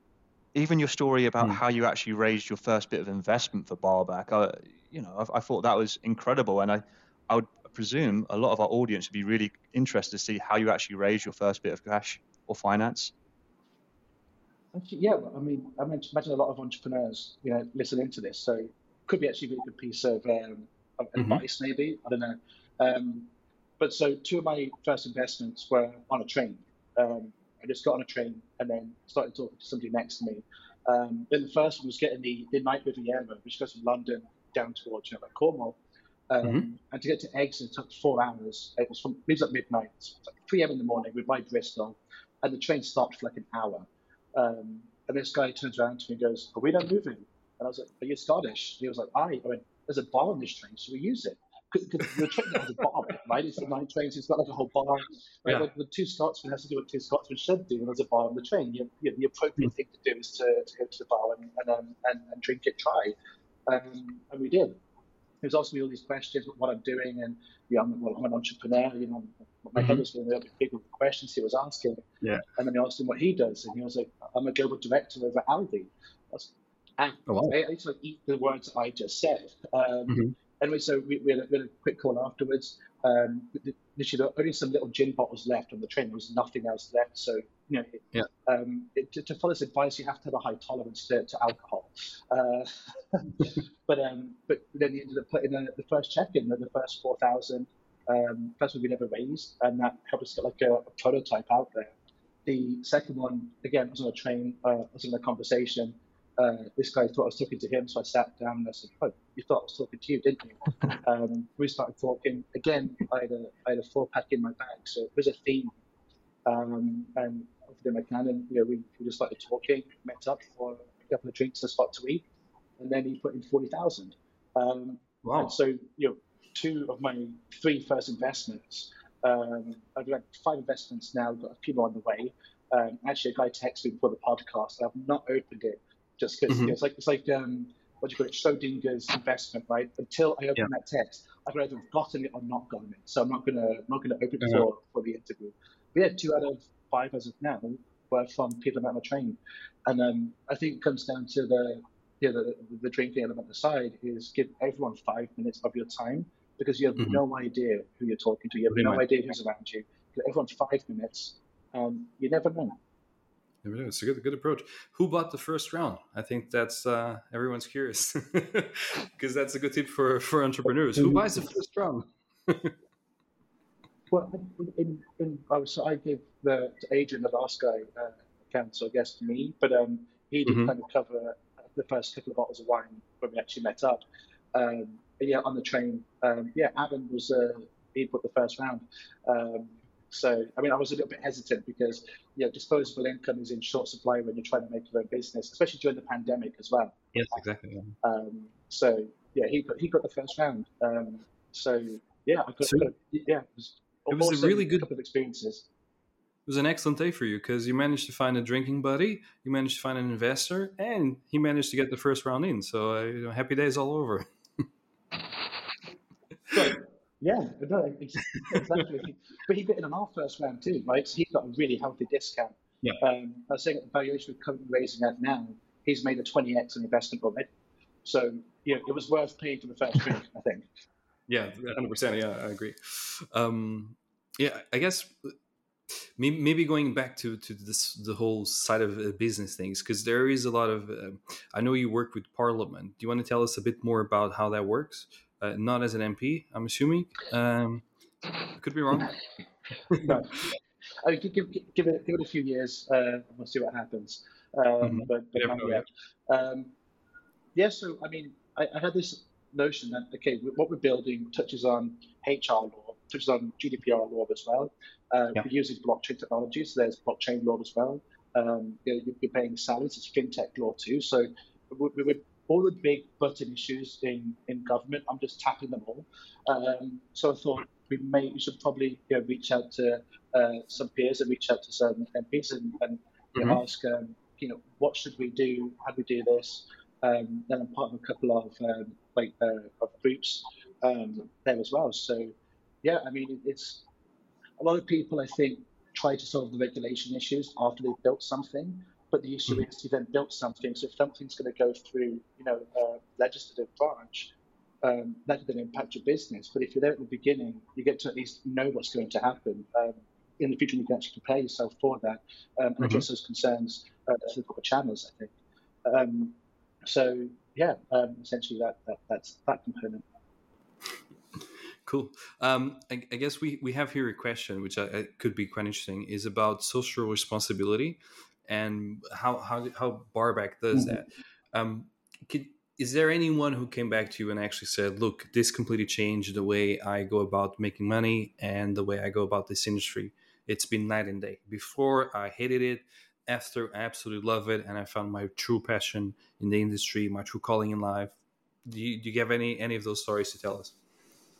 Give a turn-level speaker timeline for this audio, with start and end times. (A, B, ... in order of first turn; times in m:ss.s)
0:00.5-0:13.1 A
0:14.7-0:35.8 B
0:21.2-0:21.4 C
0:36.3-1:03.1 B
1:03.7-1:04.8 B
1:05.4-1:12.0 B
1:09.8-1:10.0 C
1:12.6-1:41.9 B
1:17.3-1:17.5 C
1:20.1-1:20.3 C
1:42.4-1:55.7 B
1:56.4-2:02.2 B
2:02.8-2:42.8 B
2:05.2-2:05.5 C
2:16.5-2:16.7 C
2:38.7-2:39.0 C
2:43.6-2:52.7 C
2:50.9-2:51.4 B
2:54.1-3:04.0 B
3:00.4-3:00.7 C
3:04.5-3:17.4 B
3:17.1-3:17.9 C
3:18.0-3:25.6 B
3:22.6-3:22.9 C
3:24.1-3:24.8 C
3:26.5-3:34.2 C
3:36.5-3:47.5 B
3:48.0-3:50.7 B
3:51.3-3:55.3 C
3:56.2-4:07.8 C
4:08.5-4:09.2 C
4:10.0-4:10.5 B
4:11.0-4:16.7 B
4:14.8-4:15.8 C
4:17.5-4:53.8 B
4:54.6-5:15.3 B
5:12.8-5:13.0 C
5:15.8-5:20.0 B
5:21.8-5:48.1 C
5:30.7-5:31.0 B
5:48.6-5:50.7 C